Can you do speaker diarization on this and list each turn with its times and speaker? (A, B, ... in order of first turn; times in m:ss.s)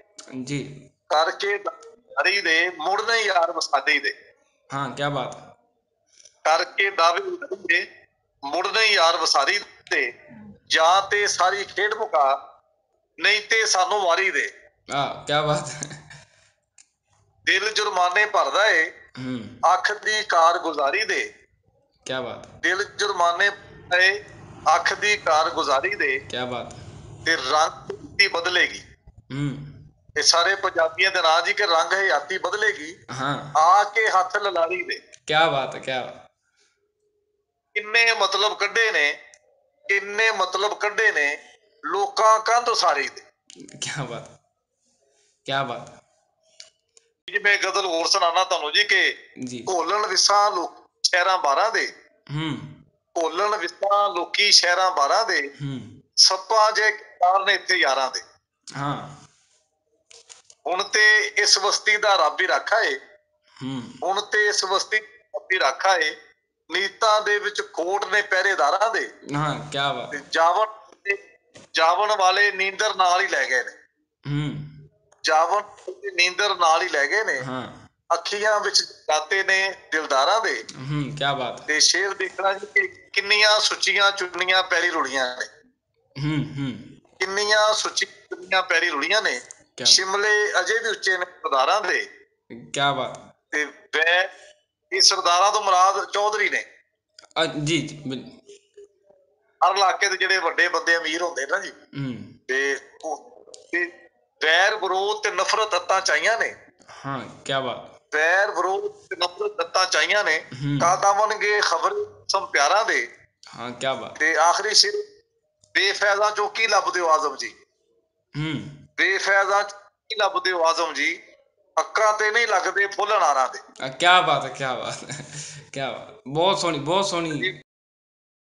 0:00.3-0:00.7 A
0:01.1-0:04.1 B
0:04.7-0:05.4 A
0:06.4-0:07.8 B
0:08.5-0:10.1 B
0:10.7-0:12.3 B
0:13.2-0:14.5 B
0:14.9-0:16.0 A
0:17.4-0:18.9 B
0:19.2-0:19.6 A
0:19.6-0:21.3 B
0:22.0-0:22.5 A
0:22.6-0:24.2 B
0:24.7-0:26.2 B
0:26.3-0:26.8 A
0:27.2-0:28.8 B
0:29.3-0:29.8 A
0:30.2-0:32.9 B
0:33.1-0:33.5 A
0:33.6-0:35.0 B
0:35.3-0:36.2 A
0:37.7-0:39.1 B
0:39.9-0:41.4 B
0:41.9-0:43.2 B
0:43.6-0:44.3 A
0:45.4-0:46.0 A
0:47.3-0:49.1 B
0:49.4-0:49.7 A
0:49.7-0:51.9 B
0:52.3-0:52.7 A
0:53.2-0:55.5 B
0:55.6-0:56.0 A
0:56.2-0:58.2 B
0:58.8-0:59.1 A
1:00.6-1:03.0 B
1:03.6-1:04.0 A
1:04.0-1:06.1 B
1:06.7-1:09.1 B
1:09.3-1:10.2 A
1:10.1-1:11.2 B
1:11.8-1:13.7 B
1:14.2-1:14.8 A
1:15.2-1:17.4 B
1:17.4-1:17.8 A
1:18.1-1:20.6 B
1:20.8-1:21.6 A
1:21.7-1:25.5 B
1:26.2-1:26.9 A
1:27.2-1:32.0 B
1:32.5-1:33.2 A
1:33.5-1:34.3 B
1:34.9-1:36.6 B
1:37.4-1:38.3 A
1:39.6-1:41.7 B
1:41.9-1:42.3 A
1:42.5-1:43.9 B
1:44.4-1:46.5 B
1:46.9-1:47.8 A
1:48.1-1:53.0 B
1:50.5-1:50.9 A
1:53.5-1:54.2 A
1:54.2-1:55.0 B
1:55.7-1:57.5 B
1:58.3-1:58.8 A
1:59.0-2:01.2 B
2:01.8-2:03.6 B
2:03.8-2:07.5 A